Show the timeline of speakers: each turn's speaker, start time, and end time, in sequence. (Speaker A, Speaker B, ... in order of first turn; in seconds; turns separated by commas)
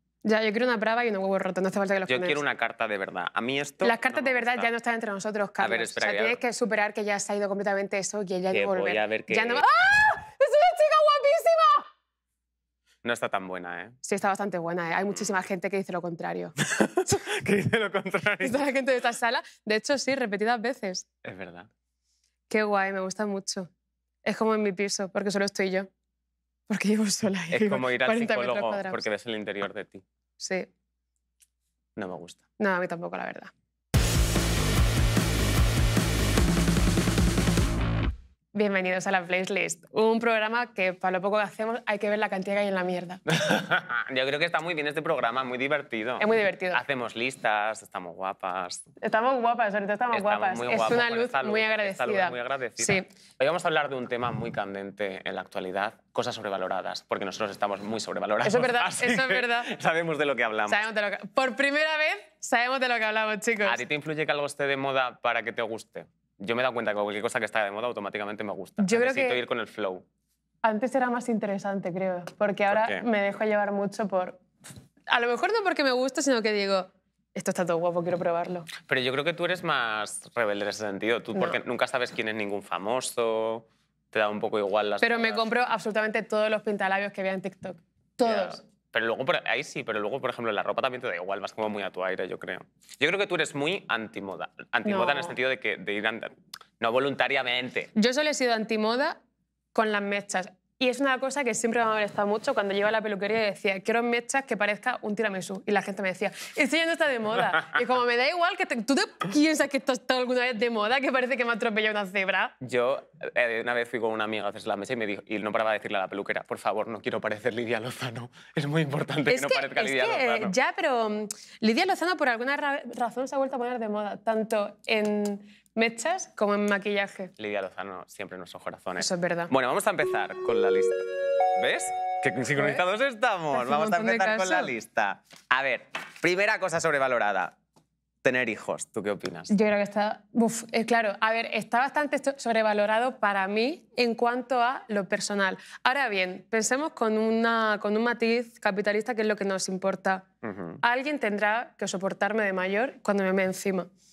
Speaker A: 0.2-2.4, Speaker B: 2.1-4.7, Speaker A: 3.8-11.9, Speaker B: 5.6-6.4, Speaker B: 8.5-9.6, Speaker B: 13.0-14.0, Speaker A: 14.0-16.5, Speaker B: 16.7-18.6, Speaker A: 18.4-21.1, Speaker B: 21.2-21.7, Speaker A: 22.5-23.7, Speaker A: 24.2-25.9, Speaker A: 26.7-29.0, Speaker B: 27.5-30.0, Speaker A: 30.4-30.7, Speaker B: 32.0-32.4, Speaker A: 32.6-33.5, Speaker A: 38.5-43.2, Speaker B: 43.3-48.9, Speaker A: 46.2-46.8, Speaker A: 49.0-53.1, Speaker B: 50.1-60.8, Speaker A: 58.4-59.7, Speaker A: 60.7-63.8, Speaker B: 63.6-70.0, Speaker A: 68.8-69.4, Speaker A: 70.6-74.4, Speaker B: 72.7-73.0, Speaker A: 75.1-78.7, Speaker B: 78.9-85.5, Speaker A: 85.0-88.6, Speaker B: 88.2-97.9, Speaker A: 94.8-95.3, Speaker A: 98.0-99.2, Speaker A: 99.7-112.5, Speaker B: 112.6-120.5, Speaker A: 119.3-127.3, Speaker B: 127.4-131.1, Speaker A: 129.0-129.5, Speaker B: 131.6-137.6, Speaker A: 132.6-132.8, Speaker A: 133.5-134.7, Speaker B: 138.2-139.5, Speaker A: 139.5-150.3, Speaker B: 150.4-150.8, Speaker A: 150.8-153.9